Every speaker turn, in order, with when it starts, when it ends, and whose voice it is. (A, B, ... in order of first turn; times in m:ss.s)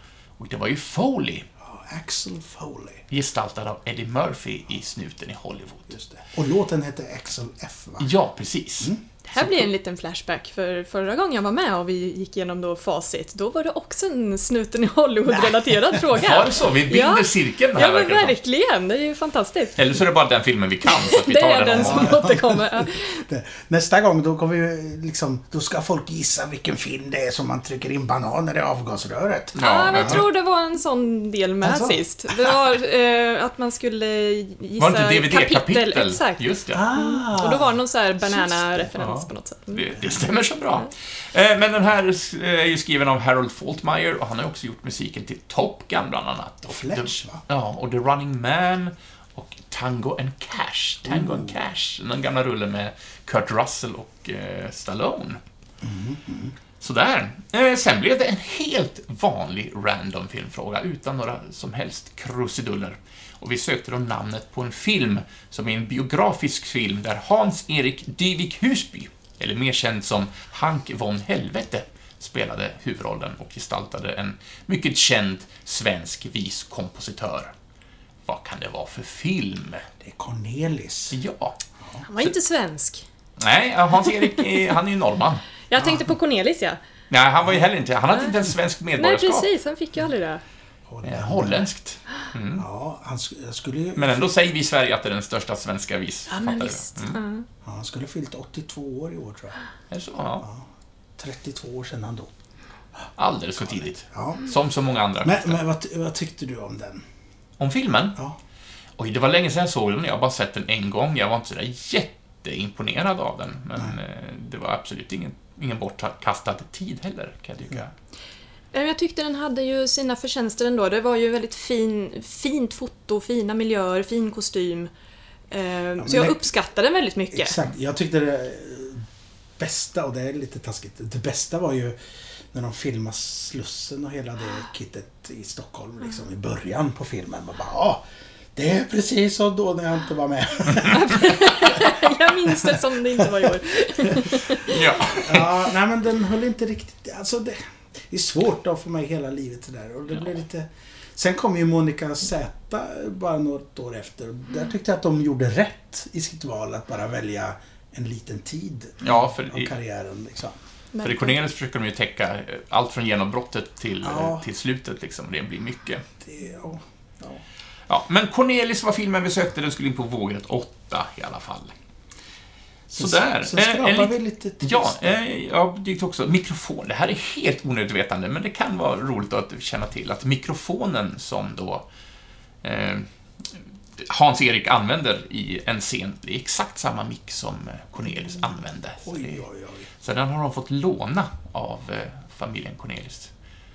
0:00.4-0:01.5 A
0:01.6-0:03.0 B
0:03.1-0:06.0 A
0:05.9-0:08.1 B
0:08.0-0:08.9 A
0:09.3-0:19.8 C
0:15.3-0:15.7 B
0:16.1-0:18.4 A
0:19.8-0:22.2 A
0:20.9-0:23.2 C
0:21.8-0:30.2 B
0:29.6-0:39.9 C
0:29.6-0:30.2 A
0:31.6-0:32.0 B
0:34.8-0:36.8 A
0:36.7-0:37.7 B
0:39.0-0:55.4 A
0:46.7-0:47.4 B
0:51.1-0:51.5 B
0:55.8-0:56.6 B
0:56.8-1:17.5 A
1:18.3-1:19.8 A
1:20.0-1:21.2 B
1:21.1-1:21.6 A
1:22.1-1:23.0 C
1:23.4-1:25.4 A
1:25.7-1:26.8 C
1:25.8-1:26.1 B
1:27.1-1:29.5 A
1:29.0-1:30.4 C
1:30.9-1:31.7 B
1:31.0-1:32.6 A
1:32.6-1:34.3 B
1:34.0-1:37.2 A
1:36.3-1:37.5 C
1:37.6-1:39.6 B
1:39.9-1:40.5 A
1:41.2-1:42.3 B
1:43.2-1:45.6 A
1:43.7-1:44.5 B
1:45.2-1:47.0 B
1:47.6-1:48.2 A
1:49.0-1:57.9 A
1:58.7-2:04.9 C
2:05.5-2:07.6 C
2:06.0-2:06.4 B
2:07.3-2:09.1 B
2:09.6-2:12.0 B
2:12.5-2:18.0 B
2:18.6-2:22.1 B
2:20.8-2:24.8 C
2:23.2-2:24.2 B
2:24.6-2:25.6 A
2:25.1-2:40.6 B
2:39.0-2:39.7 A
2:40.9-2:41.4 C
2:41.0-2:46.1 A
2:44.0-2:44.5 B
2:46.2-2:47.4 B
2:47.9-2:51.7 A
2:52.9-2:55.2 B
2:53.0-3:01.8 A
3:02.6-3:09.4 A
3:09.0-3:09.9 B
3:10.0-3:13.3 A